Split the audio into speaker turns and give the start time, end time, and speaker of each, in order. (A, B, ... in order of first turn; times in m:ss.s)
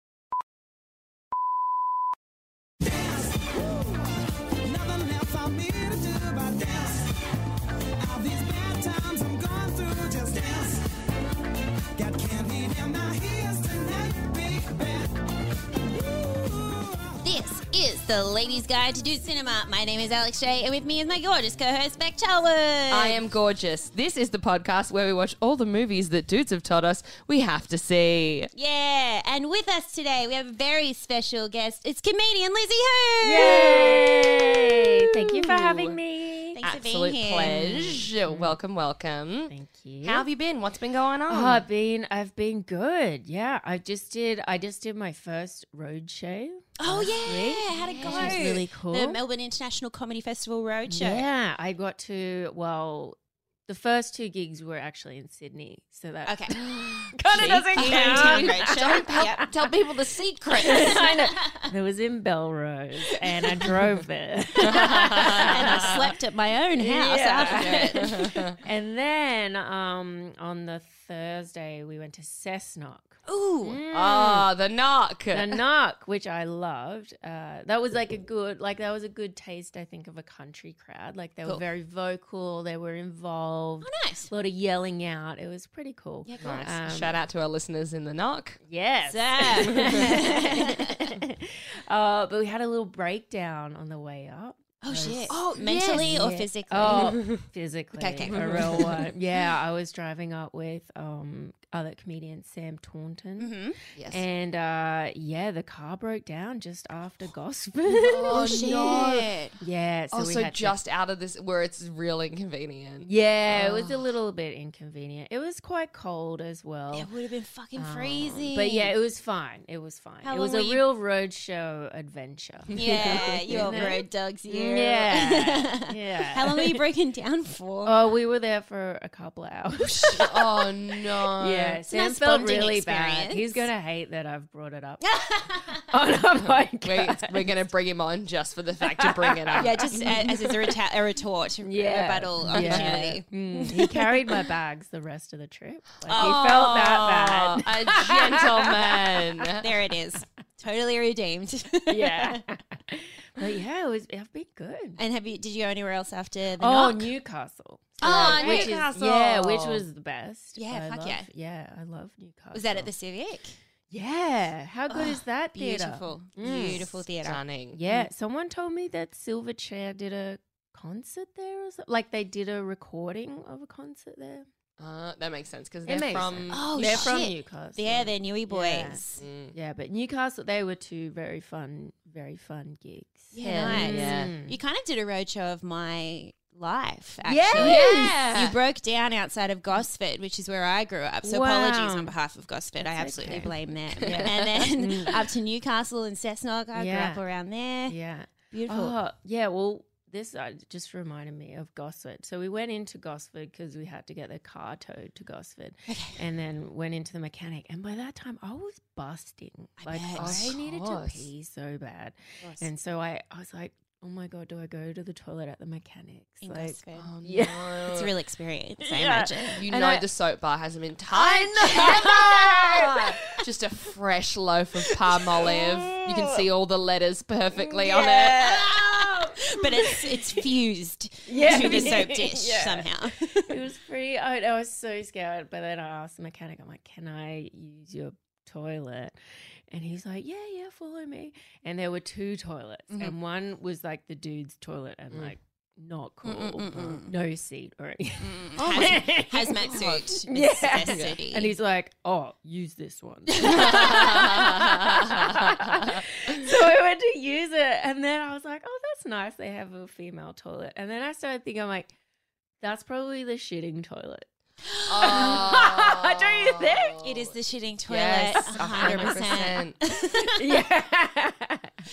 0:02.8-0:03.9 A
0:04.6-0:07.1 A
0:08.0-0:10.8 A
0:12.0-0:15.2 A
0:16.1-0:17.0 A
0:17.2-0:23.2 B
0:22.9-0:28.5 C
0:28.5-0:34.0 B
0:33.2-0:36.6 D
0:33.4-0:34.7 C
0:35.2-0:36.0 C
0:36.6-0:38.0 B
0:36.6-0:41.6 C
0:38.2-0:38.6 D
0:39.5-0:40.3 D
0:41.3-0:49.2 D
0:46.8-0:51.2 B
0:47.8-0:48.5 C
0:50.9-0:59.5 D
0:56.2-0:56.6 B
0:56.6-1:01.1 C
0:57.7-0:59.5 B
1:00.6-1:06.1 D
1:00.6-1:01.7 B
1:04.6-1:06.0 C
1:05.2-1:08.0 B
1:06.8-1:14.5 D
1:07.4-1:08.6 C
1:13.2-1:13.8 B
1:13.9-1:15.6 C
1:15.3-1:27.2 D
1:23.8-1:24.3 B
1:26.2-1:26.7 B
1:26.4-1:28.6 C
1:28.6-1:43.6 D
1:29.1-1:31.1 B
1:29.5-1:30.2 C
1:34.8-1:37.3 B
1:35.3-1:36.1 C
1:36.8-1:37.4 C
1:38.0-1:39.0 B
1:38.2-1:39.0 C
1:43.4-1:43.8 B
1:44.0-1:44.2 C
1:44.1-1:49.1 D
1:47.9-1:49.3 C
1:48.3-1:49.5 B
1:49.6-1:50.8 D
1:50.1-1:53.9 C
1:53.0-1:57.1 D
1:56.9-1:58.9 B
1:57.8-2:06.8 D
2:00.2-2:00.8 B
2:02.7-2:03.8 C
2:02.7-2:08.0 B
2:07.8-2:10.7 D
2:09.8-2:10.3 B
2:10.1-2:11.8 C
2:11.3-2:15.0 D
2:11.9-2:13.7 B
2:15.0-2:15.8 B
2:15.8-2:17.5 D
2:16.5-2:20.2 C
2:19.0-2:20.3 D
2:19.6-2:24.3 B
2:21.6-2:29.0 D
2:22.4-2:23.0 C
2:26.1-2:29.7 C
2:26.1-2:26.4 B
2:29.6-2:32.4 B
2:31.9-2:35.0 D
2:35.0-2:37.1 B
2:36.6-2:42.9 D
2:38.0-2:39.6 C
2:38.0-2:39.8 B
2:40.6-2:41.3 B
2:42.5-2:43.6 B
2:43.9-2:46.9 D
2:44.9-2:48.1 B
2:46.4-2:47.8 C
2:47.7-2:54.5 D
2:54.8-2:57.2 C
2:55.8-2:59.0 D
2:56.5-2:59.2 B
2:59.2-2:59.5 C
2:59.5-3:04.6 D
3:03.3-3:18.0 B
3:03.4-3:04.3 C
3:07.2-3:08.2 D
3:07.5-3:08.5 C
3:11.2-3:12.1 D
3:12.8-3:15.2 D
3:14.1-3:14.4 C
3:16.7-3:17.2 D
3:17.9-3:37.9 D
3:18.5-3:19.0 B
3:25.9-3:26.2 B
3:29.8-3:30.5 B
3:30.2-3:31.3 C
3:36.4-3:37.1 B
3:37.0-3:38.1 C
3:37.9-3:39.7 B
3:38.8-3:40.0 D
3:39.6-3:48.6 C
3:41.1-3:43.4 D
3:44.9-3:46.4 D
3:47.6-3:50.4 D
3:48.1-3:53.6 B
3:51.3-3:59.2 D
3:59.7-4:21.9 D
4:06.2-4:07.1 B
4:08.2-4:11.5 B
4:08.6-4:09.0 C
4:09.6-4:10.0 C
4:10.9-4:11.1 C
4:13.4-4:14.1 B
4:13.4-4:16.0 C
4:22.6-4:24.2 D
4:24.7-4:25.5 B
4:24.9-4:27.3 C
4:25.0-4:27.0 D
4:27.0-4:30.6 B
4:27.9-4:29.8 C
4:28.4-4:29.4 D
4:30.3-4:31.7 D